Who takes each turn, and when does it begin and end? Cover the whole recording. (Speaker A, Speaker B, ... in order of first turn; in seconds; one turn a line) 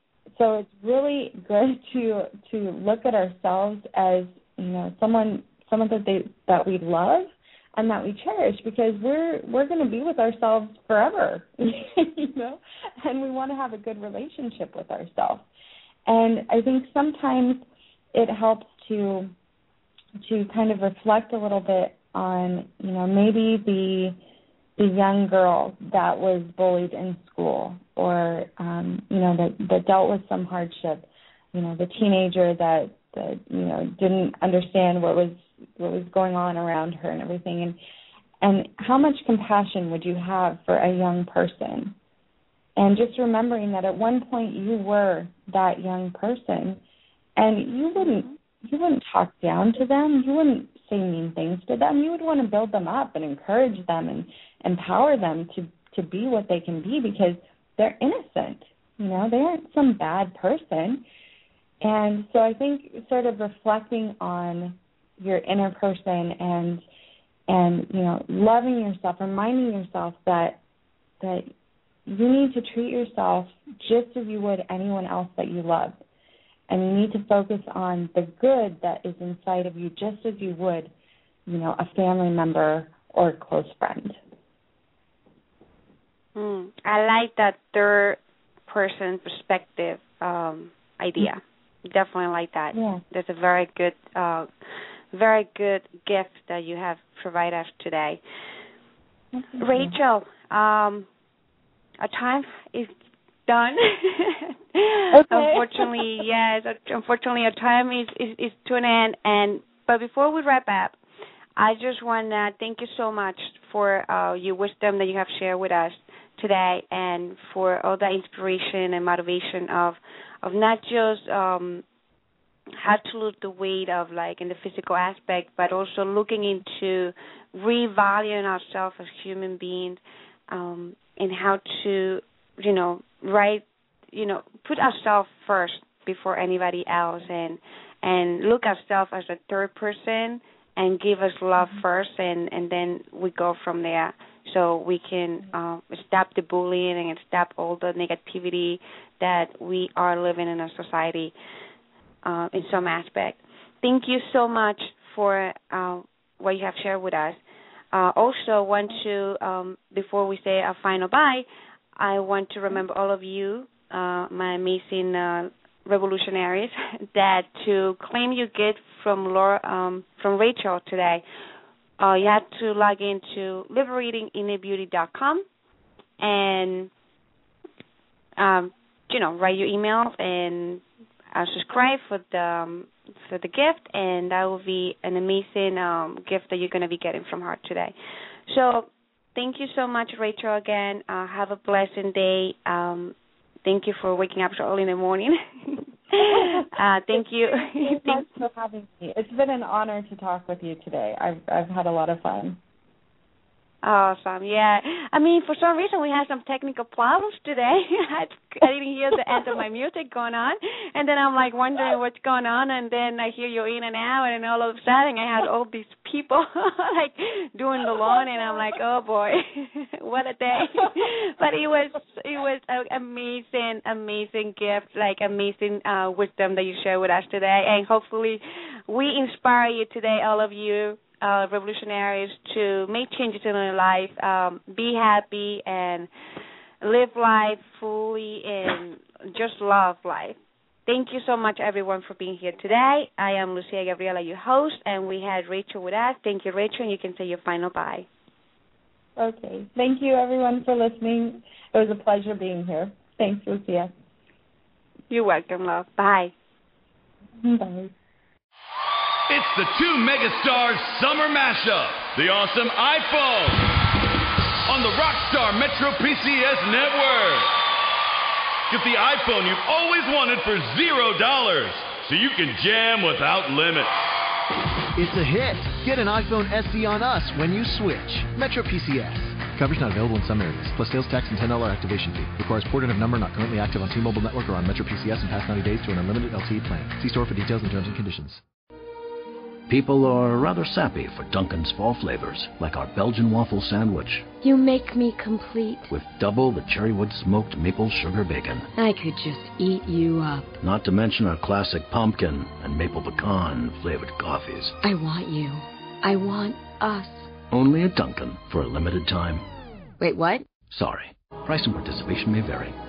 Speaker A: 0.3-15.4
Speaker A: 16.1-19.3
Speaker A: 20.2-24.2
Speaker A: 24.8-37.8
Speaker A: 38.4-42.0
Speaker A: 42.8-46.8
Speaker A: 47.4-61.0
Speaker A: 61.8-66.8
Speaker A: 67.5-70.6
Speaker A: 71.2-71.5
Speaker A: 72.1-76.0
Speaker A: 76.7-80.9
Speaker A: 81.5-84.2
Speaker B: 86.4-94.5
Speaker A: 92.7-93.0
Speaker B: 95.1-98.2
Speaker A: 99.3-100.0
Speaker B: 99.6-101.1
Speaker B: 102.0-111.0
Speaker A: 105.1-106.0
Speaker B: 111.6-121.8
Speaker B: 122.8-151.3
Speaker B: 152.2-157.4
Speaker B: 157.9-171.2
Speaker B: 172.0-175.4
Speaker B: 176.2-176.9
Speaker B: 178.4-187.9
Speaker B: 188.5-198.3
Speaker A: 196.3-202.6
Speaker B: 203.8-236.1
Speaker B: 236.8-248.1
Speaker A: 249.2-253.9
Speaker B: 255.1-256.3
Speaker A: 257.4-257.9
Speaker C: 259.3-263.7
Speaker C: 264.7-267.6
Speaker C: 268.7-274.0
Speaker D: 275.0-288.4
Speaker E: 289.7-294.3
Speaker F: 294.4-295.9
Speaker E: 295.9-298.7
Speaker F: 298.8-300.6
Speaker E: 300.6-304.8
Speaker F: 304.8-307.3
Speaker E: 307.5-309.4
Speaker F: 310.0-310.5
Speaker E: 310.7-312.8